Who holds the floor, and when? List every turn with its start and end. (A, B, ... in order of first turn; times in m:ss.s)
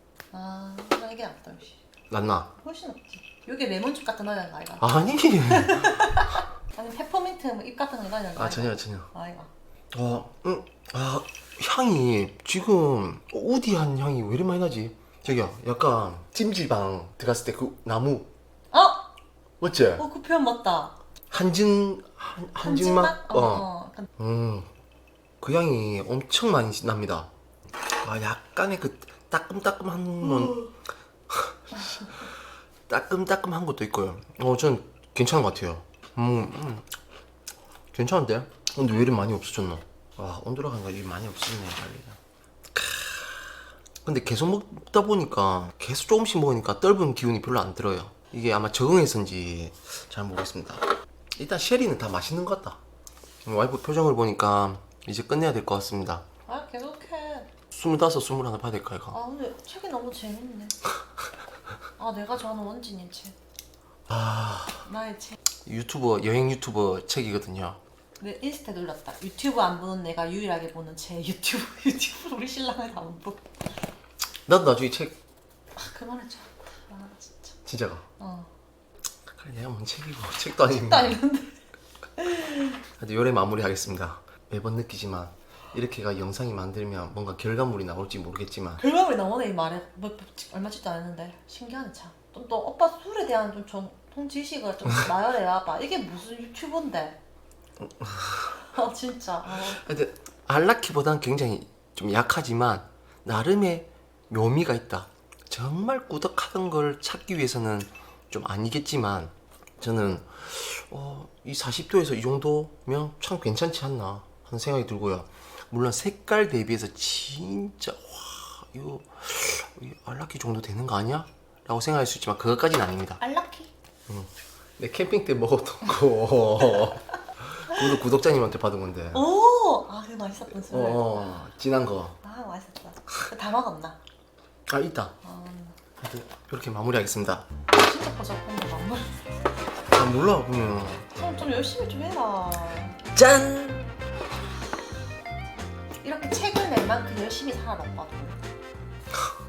0:00.3-0:01.8 A
0:02.1-0:02.5 B
0:02.6-0:04.9 A
0:04.8-0:06.1 B
0:05.4-0:09.5 A
0:08.4-0:09.1 B
0:09.9-0:18.3 B
0:18.7-0:19.1 A
0:19.6-0:20.0 B
0:20.0-0:21.0 A
0:21.3-0:24.7 B
0:22.6-0:24.1 A
0:25.4-0:27.3 B
0:28.0-0:30.7 B
0:30.3-0:30.7 A
0:31.3-0:32.2 B
0:32.9-0:36.9 B
0:37.9-0:42.2 B
0:42.8-0:50.8 B
0:51.4-0:52.8 B
0:53.4-0:56.2 B
0:56.5-0:57.5 A
0:57.7-0:59.2 B
0:59.1-1:00.8 A
1:02.0-1:03.4 A
1:04.1-1:04.9 B
1:04.9-1:05.4 A
1:05.7-1:07.8 B
1:08.2-1:13.6 A
1:14.5-1:15.2 B
1:15.8-1:17.6 A
1:17.7-1:18.0 B
1:18.2-1:18.5 A
1:19.3-1:21.2 B
1:20.6-1:21.6 A
1:22.2-1:22.8 A
1:23.0-1:28.8 B
1:28.8-1:37.2 A
1:37.8-1:38.6 B
1:38.6-1:39.8 A
1:39.5-2:03.2 B
2:03.2-2:03.7 A
2:04.1-2:09.2 B
2:09.1-2:11.4 A
2:10.5-2:12.2 B
2:12.2-2:14.0 A
2:14.7-2:15.2 B
2:15.2-2:15.8 A
2:16.0-2:17.4 B
2:17.7-2:19.3 A
2:19.9-2:21.1 B
2:21.1-2:23.0 A
2:23.2-2:23.9 B
2:26.0-2:28.4 A